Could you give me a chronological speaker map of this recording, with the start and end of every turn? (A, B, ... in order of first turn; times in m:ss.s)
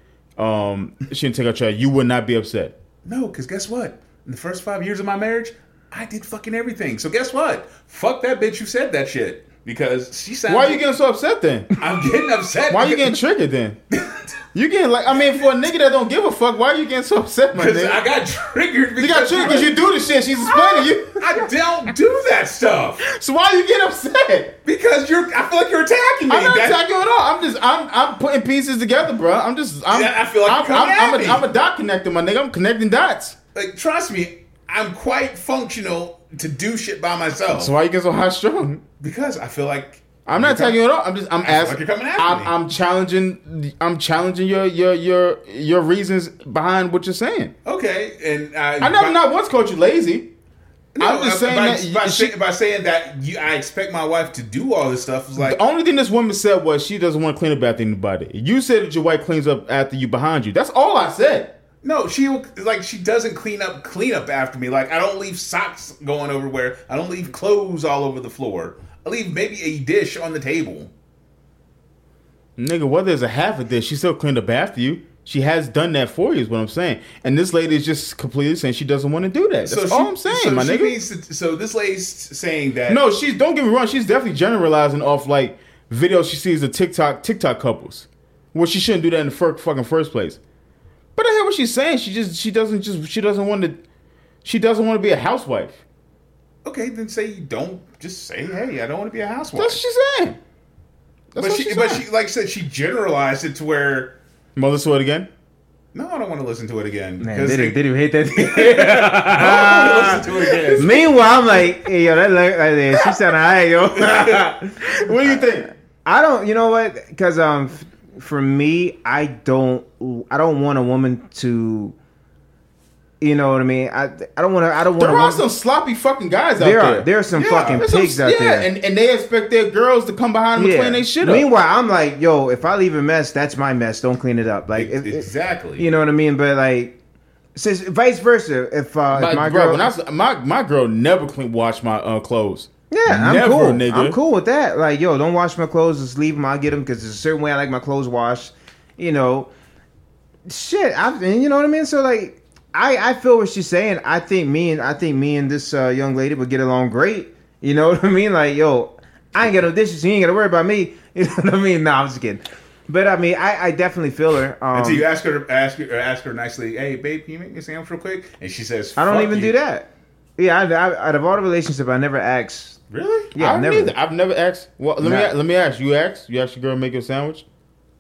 0:00.4-0:02.7 A
0:03.0-0:10.8 B
0:10.5-0:11.7 A
0:11.8-0:13.1 B
0:12.7-0:13.8 A
0:13.9-0:14.3 B
0:14.5-0:18.0 A
0:17.6-0:19.8 B
0:19.0-0:21.5 A
0:20.4-0:23.0 B
0:23.0-0:24.6 A
0:24.6-0:26.8 B
0:26.3-0:33.4 A
0:29.9-0:31.4 B
0:33.6-0:37.7 B
0:37.5-0:38.8 A
0:39.0-0:40.8 B
0:40.2-0:47.5 A
0:41.4-0:42.5 B
0:47.6-0:49.2 B
0:48.8-0:50.3 A
0:50.9-0:55.6 B
0:51.0-0:52.3 A
0:55.4-1:01.6 A
1:01.8-1:10.9 B
1:12.6-1:21.0 A
1:19.6-1:23.0 B
1:22.9-1:30.4 A
1:31.2-1:33.8 A
1:34.4-1:35.8 A
1:36.6-1:39.8 B
1:39.5-1:40.4 A
1:41.3-1:42.0 A
1:41.4-1:44.2 B
1:44.6-1:45.3 A
1:45.9-1:47.8 B
1:47.2-1:55.4 C
1:48.4-1:51.1 B
1:49.3-1:51.2 A
1:54.8-1:55.7 A
1:56.0-2:02.0 C
2:03.2-2:05.4 C
2:05.0-2:11.5 A
2:06.6-2:08.7 C
2:07.3-2:07.9 B
2:10.6-2:17.0 C
2:14.8-2:15.9 B
2:17.6-2:19.9 C
2:19.1-2:24.2 A
2:22.9-2:29.5 C
2:30.4-2:45.1 C
2:44.7-2:49.6 B
2:49.0-2:52.8 C
2:52.9-2:53.3 B
2:53.3-2:53.9 C
2:53.3-2:57.4 A
2:55.0-2:55.3 C